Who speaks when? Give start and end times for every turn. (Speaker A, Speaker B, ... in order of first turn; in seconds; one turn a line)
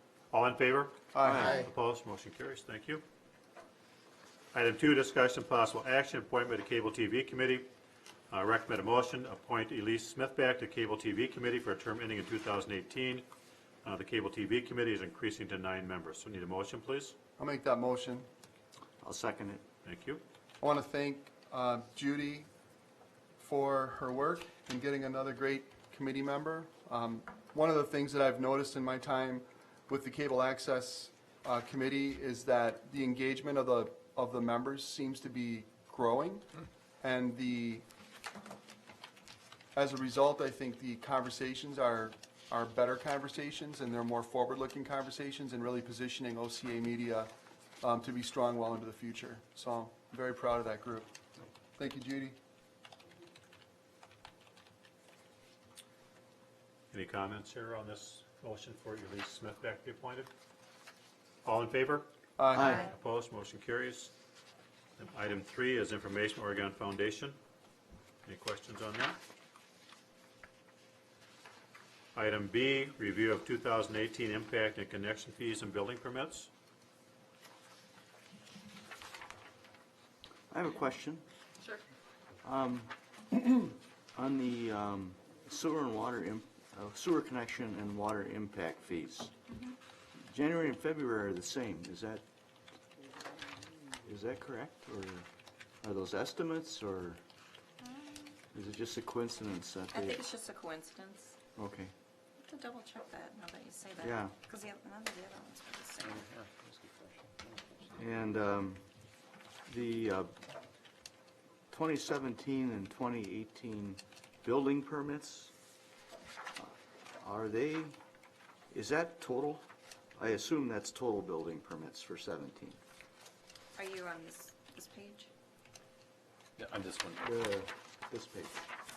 Speaker A: 0.3-3.0
Speaker B: 1.1-1.5
Speaker A: 4.5-7.7
Speaker A: 8.3-13.2
Speaker A: 13.8-17.1
Speaker B: 17.4-18.3
Speaker C: 19.0-19.6
Speaker A: 19.8-20.2
Speaker B: 20.6-22.5
Speaker B: 23.4-36.5
Speaker B: 37.0-37.8
Speaker B: 39.7-47.3
Speaker B: 47.8-51.1
Speaker B: 51.8-52.4
Speaker A: 56.9-60.3
Speaker A: 61.4-62.1
Speaker B: 62.4-62.8
Speaker C: 62.5-62.9
Speaker A: 62.6-64.1
Speaker A: 65.0-67.4
Speaker A: 68.2-69.2
Speaker A: 72.1-76.5
Speaker C: 80.5-81.2
Speaker C: 82.4-89.3
Speaker C: 90.2-92.2
Speaker C: 94.1-95.2
Speaker C: 95.8-97.2
Speaker D: 97.8-98.4
Speaker C: 98.5-100.3
Speaker D: 99.9-101.3
Speaker C: 101.6-101.9
Speaker D: 102.4-106.2
Speaker C: 104.0-104.3
Speaker E: 106.0-108.1
Speaker C: 108.0-108.8
Speaker C: 109.7-110.3
Speaker C: 111.7-115.5
Speaker C: 116.6-118.0
Speaker C: 118.7-119.6
Speaker C: 120.2-122.8
Speaker D: 123.8-125.3
Speaker E: 126.6-127.3
Speaker C: 127.2-128.6